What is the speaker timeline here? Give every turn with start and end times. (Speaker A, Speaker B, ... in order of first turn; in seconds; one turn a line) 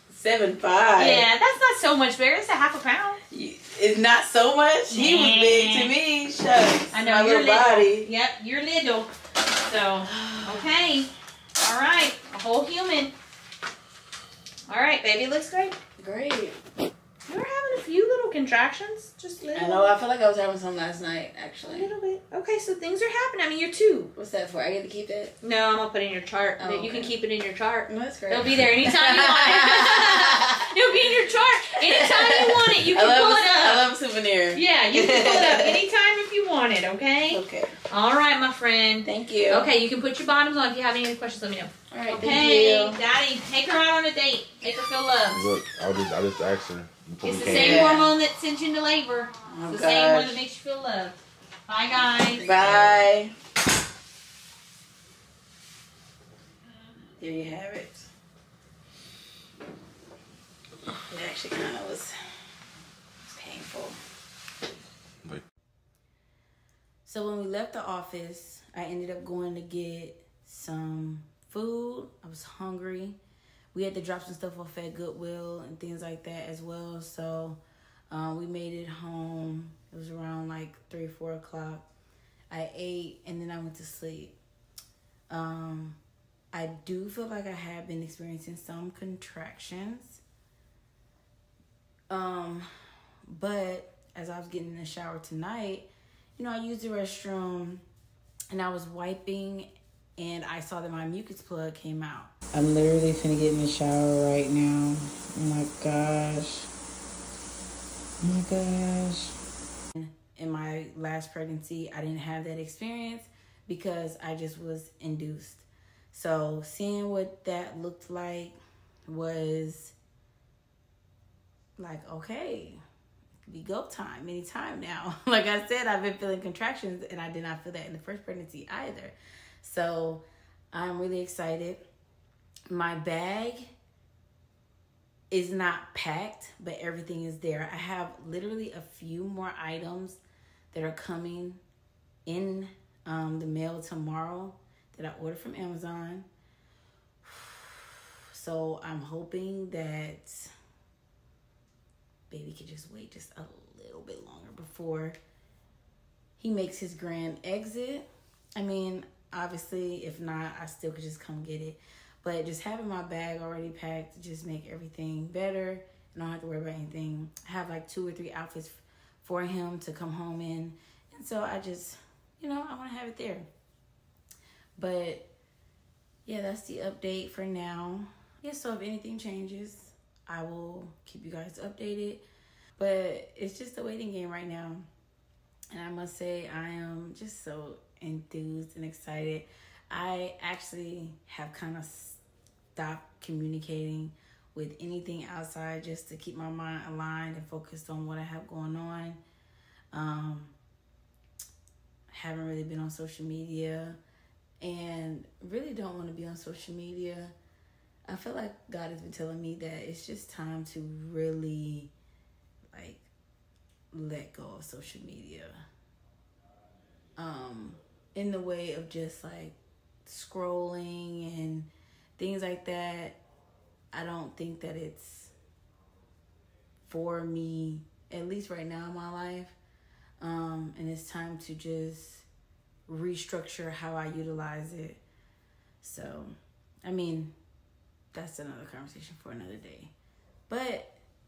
Speaker A: 0.1-1.3
Speaker B: 1.0-3.2
Speaker A: 3.3-8.1
Speaker B: 4.9-6.0
Speaker B: 6.9-13.1
Speaker A: 10.0-10.7
Speaker B: 14.7-15.8
Speaker A: 16.0-16.6
Speaker B: 17.3-20.0
Speaker A: 19.5-21.9
Speaker B: 21.7-24.1
Speaker A: 24.2-25.4
Speaker B: 25.4-33.9
Speaker A: 26.6-27.1
Speaker A: 27.9-30.7
Speaker A: 31.8-35.8
Speaker B: 34.5-45.4
Speaker A: 37.3-37.8
Speaker A: 39.0-39.7
Speaker A: 41.9-43.0
Speaker C: 45.3-48.0
Speaker B: 47.2-52.5
Speaker A: 47.5-48.1
Speaker A: 49.5-50.4
Speaker A: 52.4-53.3
Speaker C: 52.6-53.1
Speaker A: 57.2-58.1
Speaker A: 61.1-62.1
Speaker A: 63.3-64.0
Speaker A: 67.0-73.2
Speaker A: 73.7-81.9
Speaker A: 82.5-84.4
Speaker A: 85.3-86.0
Speaker A: 86.5-90.2
Speaker A: 92.1-92.7
Speaker A: 93.3-97.8
Speaker A: 98.5-106.7
Speaker A: 108.2-109.3
Speaker A: 110.0-118.6
Speaker A: 119.1-120.0
Speaker A: 121.8-122.8
Speaker A: 123.5-131.8
Speaker A: 132.7-133.7
Speaker A: 135.3-140.2
Speaker A: 140.7-141.6
Speaker A: 142.3-146.3
Speaker A: 147.2-150.5
Speaker A: 152.3-155.2
Speaker A: 156.4-158.1
Speaker A: 158.6-173.5
Speaker A: 174.8-175.3
Speaker A: 176.3-182.2
Speaker A: 182.8-184.9
Speaker A: 185.7-192.2
Speaker A: 192.8-199.2
Speaker A: 199.9-200.5
Speaker A: 202.1-204.0
Speaker A: 204.6-207.3
Speaker A: 208.1-211.9
Speaker A: 212.7-213.1
Speaker A: 213.9-215.6
Speaker A: 217.2-223.2
Speaker A: 223.9-225.3
Speaker A: 226.9-229.6
Speaker A: 230.2-232.3
Speaker A: 232.9-235.0
Speaker A: 235.8-236.3
Speaker A: 236.8-237.3
Speaker A: 238.1-239.9
Speaker A: 240.5-241.0